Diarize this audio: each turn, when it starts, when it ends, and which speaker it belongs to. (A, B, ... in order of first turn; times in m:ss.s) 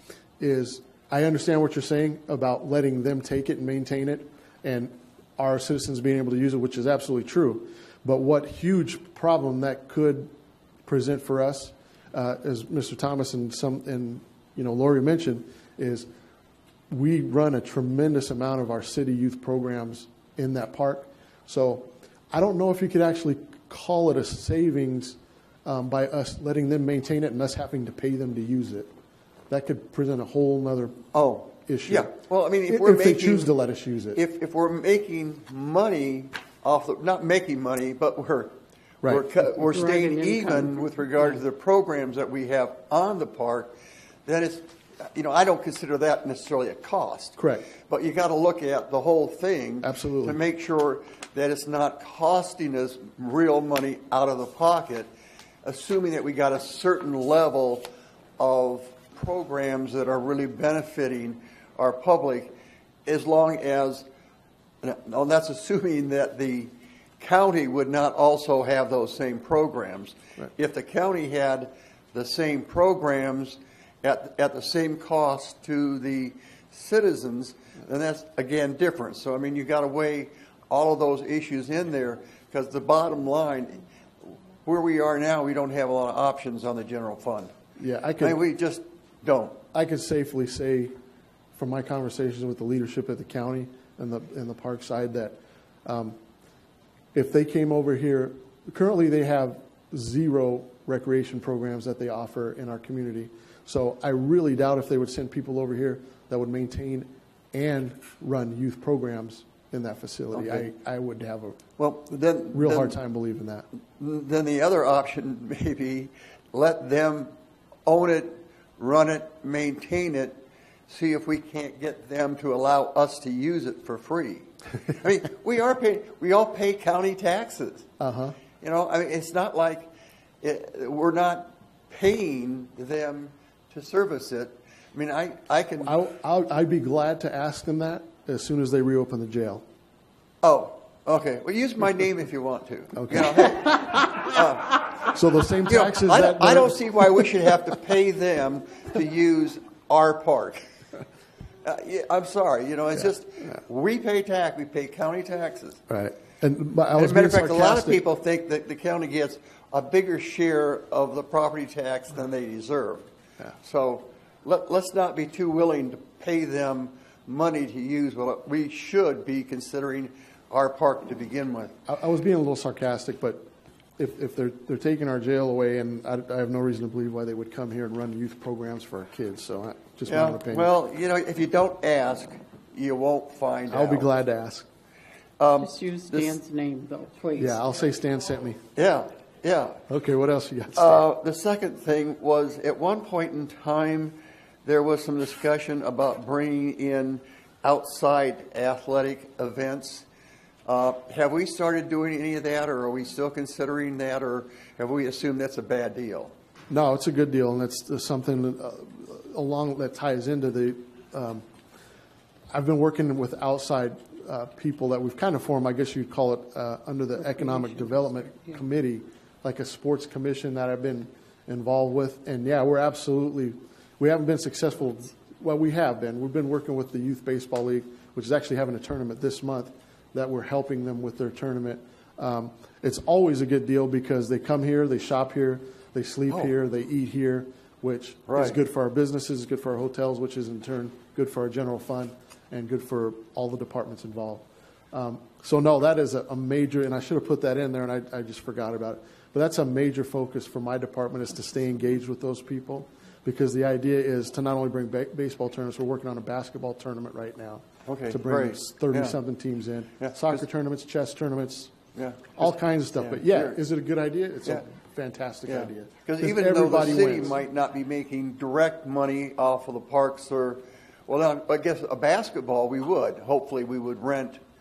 0:00.4-0:10.3 A
0:10.8-0:16.1 A
0:16.9-0:28.9 A
0:29.5-0:31.0 A
0:31.1-0:33.5 B
0:31.6-0:32.1 A
0:32.7-0:34.2 A
0:34.1-0:43.7 B
0:39.0-0:39.3 A
0:39.6-0:41.2 C
0:44.2-0:55.1 B
0:47.4-0:47.7 A
0:49.8-0:50.4 A
0:55.6-0:57.9 B
0:58.4-1:02.6 B
1:03.0-1:04.0 B
1:04.8-1:27.5 B
1:27.8-1:28.4 A
1:28.2-1:29.6 B
1:29.7-1:30.9 A
1:31.5-1:36.2 A
1:37.1-1:51.6 A
1:50.3-1:50.7 B
1:51.8-1:53.0 B
1:52.5-1:53.7 A
1:54.0-1:57.3 B
1:57.9-2:07.9 B
2:08.0-2:08.4 A
2:08.6-2:09.9 B
2:10.4-2:15.9 B
2:15.8-2:19.6 A
2:20.4-2:24.9 B
2:22.9-2:23.6 A
2:25.1-2:27.3 A
2:25.7-2:30.6 B
2:31.6-2:35.8 B
2:35.9-2:38.0 A
2:36.9-2:43.0 B
2:43.6-2:51.8 B
2:51.9-2:53.5 A
2:54.0-3:00.7 A
3:00.1-3:04.1 B
3:03.7-3:04.7 A
3:05.4-3:06.4 B
3:05.6-3:07.6 C
3:07.4-3:08.6 A
3:08.8-3:09.8 B
3:09.9-3:11.1 A
3:10.8-3:20.1 B
3:20.7-3:26.3 B
3:26.7-3:31.4 A
3:32.5-4:21.7 A
3:58.3-3:58.6 B
4:17.9-4:19.2 B
4:20.0-4:20.5 B
4:22.0-4:23.6 B
4:22.4-4:27.4 A
4:25.5-4:34.4 B